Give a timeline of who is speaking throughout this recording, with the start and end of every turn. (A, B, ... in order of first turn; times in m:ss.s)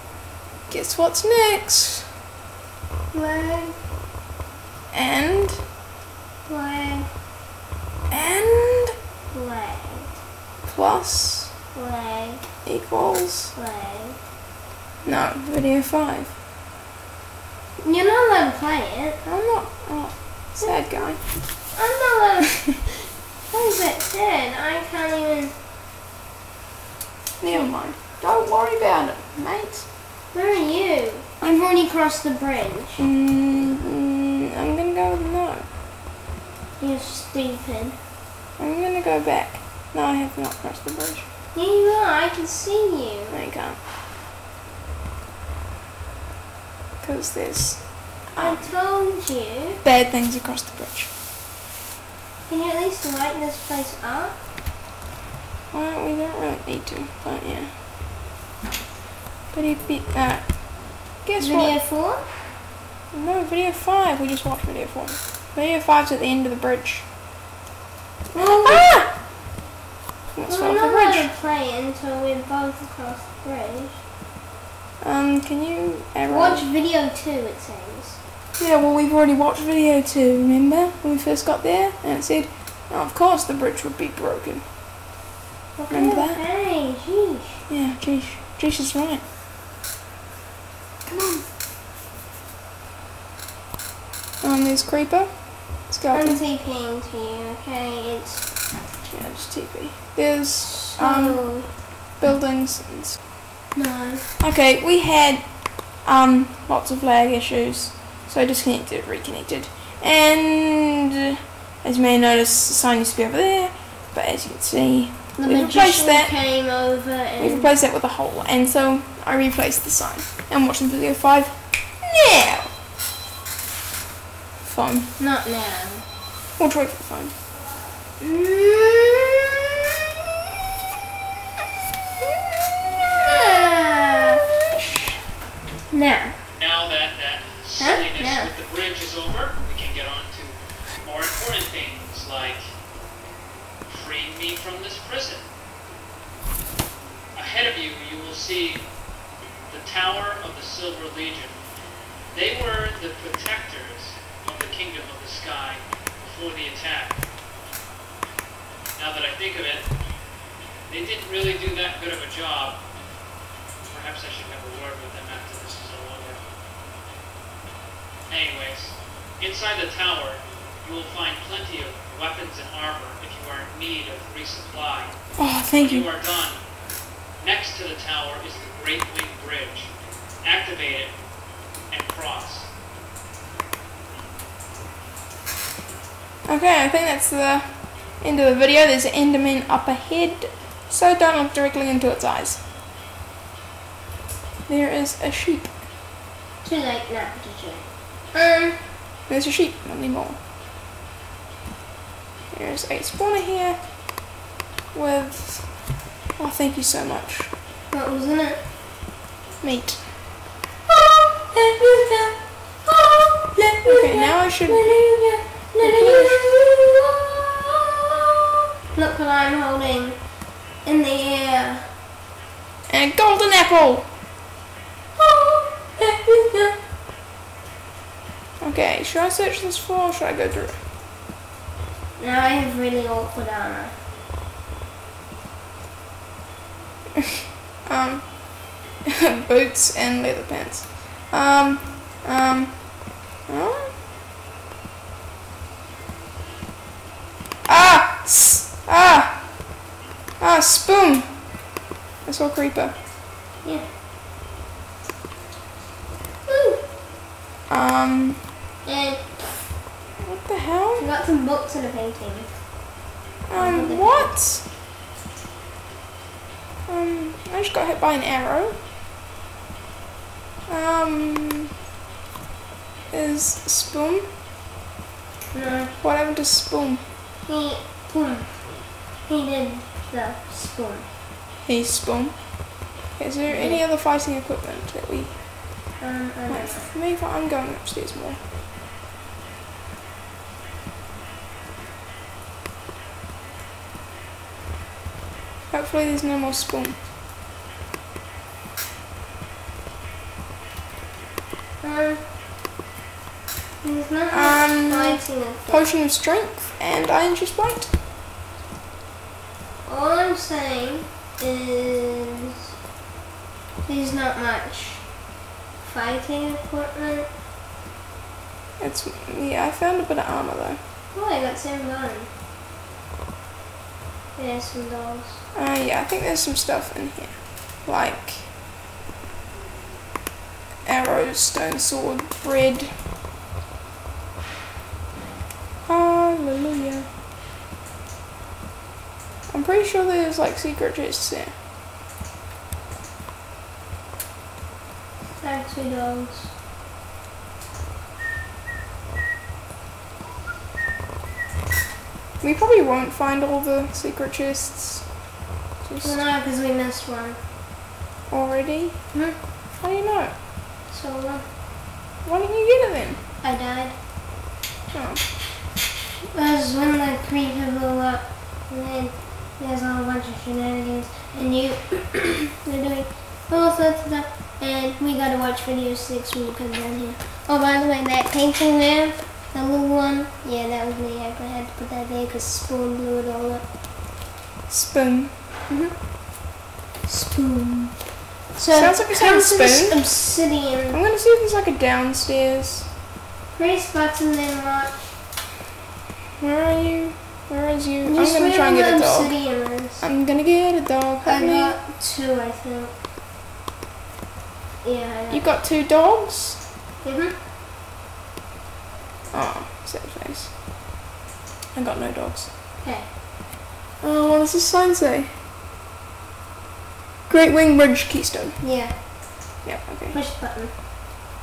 0:00.7-0:02.1 A
0:03.1-0:03.8 B
0:04.9-0:05.6 A
0:06.4-0:07.1 B
0:08.1-0:08.9 A
0:09.3-0:10.2 B
0:10.6-0:11.5 A
0:11.7-0:12.5 B
0:12.6-0:13.5 A
0:13.5-0:14.2 B
0:15.0-0:16.3 A
0:17.8-0:19.2 B
0:19.2-0:21.3 A
0:20.6-0:22.9 B
0:23.5-0:25.5 B
0:27.4-0:29.8 A
0:30.3-0:33.0 B
0:33.0-0:35.6 A
0:36.8-0:38.0 B
0:38.6-0:41.2 A
0:41.5-0:43.4 B
0:43.3-0:43.8 A
0:47.0-0:48.7 A
0:48.4-0:49.8 B
0:49.8-0:51.1 A
0:52.5-0:54.4 B
0:55.7-0:57.7 A
0:59.5-1:01.8 A
1:01.4-1:02.3 B
1:03.1-1:07.0 A
1:08.3-1:08.9 B
1:08.3-1:09.1 A
1:10.3-1:11.3 A
1:10.5-1:14.0 B
1:15.0-1:16.6 A
1:16.3-1:18.2 B
1:18.6-1:24.6 A
1:25.7-1:27.6 B
1:25.9-1:26.4 A
1:27.7-1:29.2 A
1:31.1-1:31.4 B
1:34.4-1:36.4 A
1:36.1-1:38.5 B
1:39.1-1:43.2 A
1:40.8-1:41.7 B
1:43.7-1:44.3 B
1:44.4-1:51.1 A
1:51.8-1:56.3 A
1:55.4-1:57.7 B
1:57.4-2:02.7 A
2:04.6-2:05.1 A
2:05.2-2:06.1 B
2:06.6-2:07.3 A
2:08.2-2:09.4 B
2:13.2-2:14.4 B
2:15.9-2:16.4 B
2:16.6-2:22.7 C
2:17.8-2:18.5 B
2:23.8-2:25.4 C
2:27.3-2:28.9 C
2:29.7-2:31.6 C
2:32.3-2:37.2 C
2:39.0-2:39.9 C
2:40.9-2:42.8 C
2:43.9-2:46.4 C
2:48.3-2:56.6 C
2:55.4-2:56.1 A
2:57.4-2:59.9 C
3:00.4-3:01.1 C
3:01.9-3:02.7 C
3:06.4-3:12.6 A
3:14.7-3:15.8 A
3:16.6-3:18.8 B
3:19.3-3:20.4 A
3:22.5-3:23.8 A
3:24.9-3:27.5 A
3:27.9-3:28.6 B
3:29.6-3:30.0 A
3:31.5-3:37.7 B
3:33.8-3:35.0 A
3:35.8-3:36.5 A
3:38.9-3:41.9 B
3:42.9-3:44.1 A
3:45.2-3:46.8 B
3:48.6-3:50.8 A
3:52.2-3:54.0 B
3:57.8-4:03.9 A
4:07.6-4:09.7 A
4:10.4-4:11.6 A
4:12.2-4:13.0 A
4:13.6-4:13.9 B
4:16.4-4:16.8 B
4:17.7-4:18.4 A
4:18.8-4:19.7 B
4:20.2-4:21.1 A
4:21.0-4:22.6 B
4:23.4-4:24.6 A
4:23.5-4:24.3 B
4:26.9-4:28.8 A
4:30.7-4:31.7 A
4:33.1-4:34.3 A
4:35.5-4:35.9 B
4:36.0-4:37.0 A
4:37.4-4:41.1 B
4:41.6-4:45.4 A
4:43.5-4:43.8 B
4:46.0-4:46.9 B
4:46.5-4:48.4 A
4:55.7-4:57.0 A
5:01.8-5:02.2 B
5:03.8-5:05.8 B
5:04.3-5:07.9 A
5:09.8-5:12.5 B
5:13.8-5:15.2 B
5:15.8-5:17.3 B
5:18.8-5:20.8 A
5:21.1-5:22.3 B
5:24.3-5:25.4 B
5:25.5-5:28.5 A
5:30.8-5:33.0 A
5:35.8-5:37.1 A
5:39.5-5:41.5 A
5:45.4-5:46.5 B
5:52.4-5:55.2 A
5:55.8-5:56.2 A
5:56.0-5:57.4 B
5:58.3-5:59.2 A
5:59.7-6:00.3 A
6:00.9-6:01.5 B
6:02.2-6:03.2 A
6:03.4-6:04.0 B
6:04.9-6:05.2 A
6:06.3-6:23.6 B
6:24.7-6:25.4 A
6:25.7-6:26.0 B
6:27.0-6:31.0 B
6:28.7-6:30.1 A
6:30.9-6:32.9 A
6:33.5-6:35.0 B
6:36.4-6:39.4 A
6:38.0-6:40.0 B
6:40.0-6:41.8 A
6:41.2-6:42.9 B
6:44.8-6:45.5 B
6:45.3-6:46.6 A
6:47.0-6:47.4 B
6:49.3-6:50.5 A
6:51.7-6:52.5 A
6:52.8-6:53.1 B
6:54.0-6:55.3 A
6:57.3-6:58.6 A
6:58.6-6:59.4 B
6:59.6-7:00.2 A
7:00.1-7:00.7 B